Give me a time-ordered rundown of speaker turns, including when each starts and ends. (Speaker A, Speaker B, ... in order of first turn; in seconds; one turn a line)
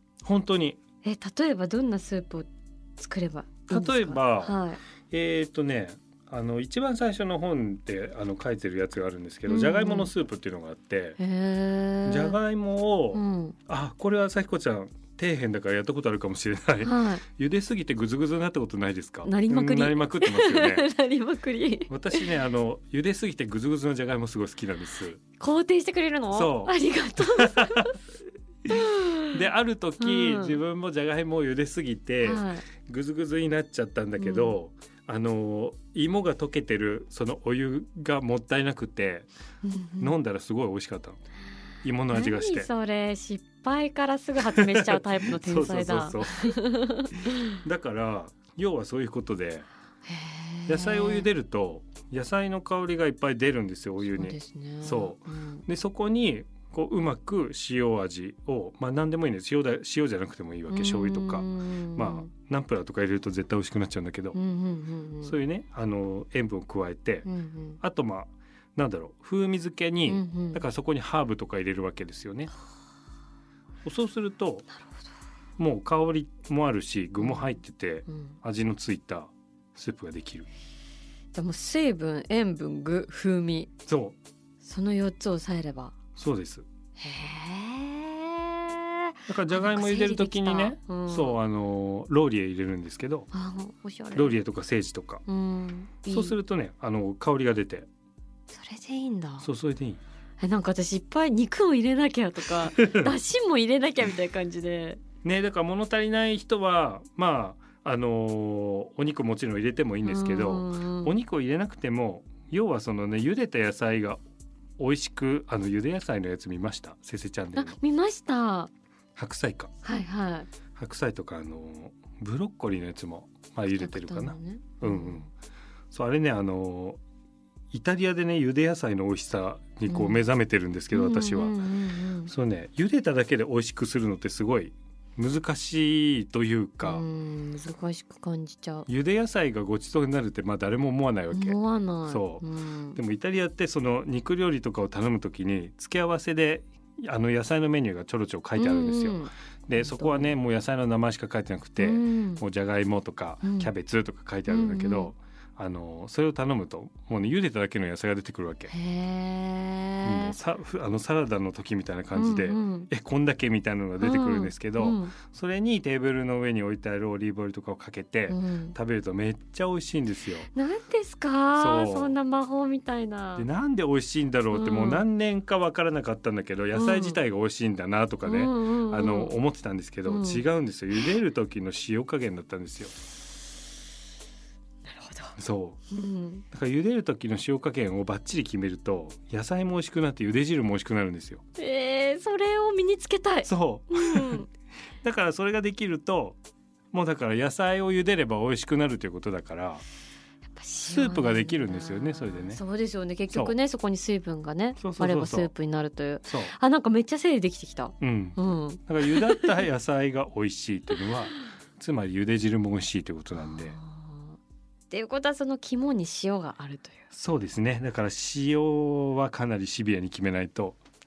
Speaker A: 0.2-0.8
Speaker B: 1.0-4.8
Speaker A: 3.7-4.6
Speaker A: 5.1-11.2
Speaker B: 9.5-10.1
Speaker B: 11.2-12.4
Speaker A: 12.1-20.9
Speaker B: 13.1-13.6
Speaker B: 16.8-17.2
Speaker B: 19.2-22.3
Speaker A: 21.9-25.2
Speaker B: 25.4-28.0
Speaker A: 26.3-27.9
Speaker B: 28.7-29.4
Speaker A: 29.3-39.3
Speaker B: 30.0-30.6
Speaker B: 32.2-32.7
Speaker B: 34.2-34.5
Speaker B: 39.6-40.1
Speaker A: 40.0-41.2
Speaker A: 41.8-42.7
Speaker B: 42.1-47.6
Speaker A: 44.5-46.6
Speaker A: 47.5-49.7
Speaker B: 50.1-51.3
Speaker A: 50.7-64.4
Speaker B: 54.1-55.6
Speaker B: 60.7-62.3
Speaker B: 64.3-65.4
Speaker A: 65.2-67.3
Speaker B: 67.2-67.8
Speaker A: 67.8-72.5
Speaker B: 70.1-70.6
Speaker A: 73.8-74.7
Speaker A: 75.6-80.5
Speaker B: 77.2-77.5
Speaker B: 78.1-78.4
Speaker B: 81.3-83.7
Speaker A: 83.9-84.2
Speaker B: 84.6-86.0
Speaker A: 86.2-86.7
Speaker B: 87.0-91.4
Speaker A: 89.3-93.3
Speaker B: 93.3-94.4
Speaker A: 94.1-95.2
Speaker B: 95.3-96.4
Speaker A: 96.1-97.9
Speaker B: 98.5-99.5
Speaker A: 99.4-100.0
Speaker B: 100.4-105.0
Speaker A: 102.8-103.1
Speaker A: 105.2-114.2
Speaker B: 110.0-111.1
Speaker A: 114.8-117.8
Speaker B: 117.5-118.7
Speaker A: 119.2-119.7
Speaker B: 119.8-120.5
Speaker A: 120.8-125.3
Speaker B: 123.8-125.3
Speaker A: 125.9-127.0
Speaker A: 127.7-131.6
Speaker B: 129.9-130.2
Speaker B: 130.9-132.3
Speaker A: 132.3-137.0
Speaker B: 136.8-138.9
Speaker A: 138.9-142.4
Speaker B: 141.3-143.0
Speaker A: 143.0-158.7
Speaker B: 148.6-150.3
Speaker B: 151.8-152.4
Speaker B: 153.4-153.7
Speaker B: 154.5-155.1
Speaker B: 158.7-160.3
Speaker A: 160.0-170.5
Speaker B: 162.1-162.9
Speaker B: 164.0-165.2
Speaker B: 168.3-168.8
Speaker B: 170.5-173.5
Speaker A: 171.6-172.2
Speaker A: 173.4-182.9
Speaker B: 174.5-175.0
Speaker B: 176.8-177.2
Speaker B: 178.2-179.4
Speaker B: 180.1-180.4
Speaker B: 184.9-185.4
Speaker A: 185.4-185.8
Speaker B: 185.9-186.4
Speaker A: 186.5-191.4
Speaker B: 191.6-194.5
Speaker A: 193.5-194.4
Speaker A: 195.0-196.4
Speaker A: 196.9-199.8
Speaker B: 200.5-209.6
Speaker A: 200.8-202.6
Speaker A: 204.8-205.5
Speaker A: 206.2-206.5
Speaker A: 208.0-213.8
Speaker B: 213.4-214.4
Speaker B: 214.9-217.0
Speaker A: 217.1-220.8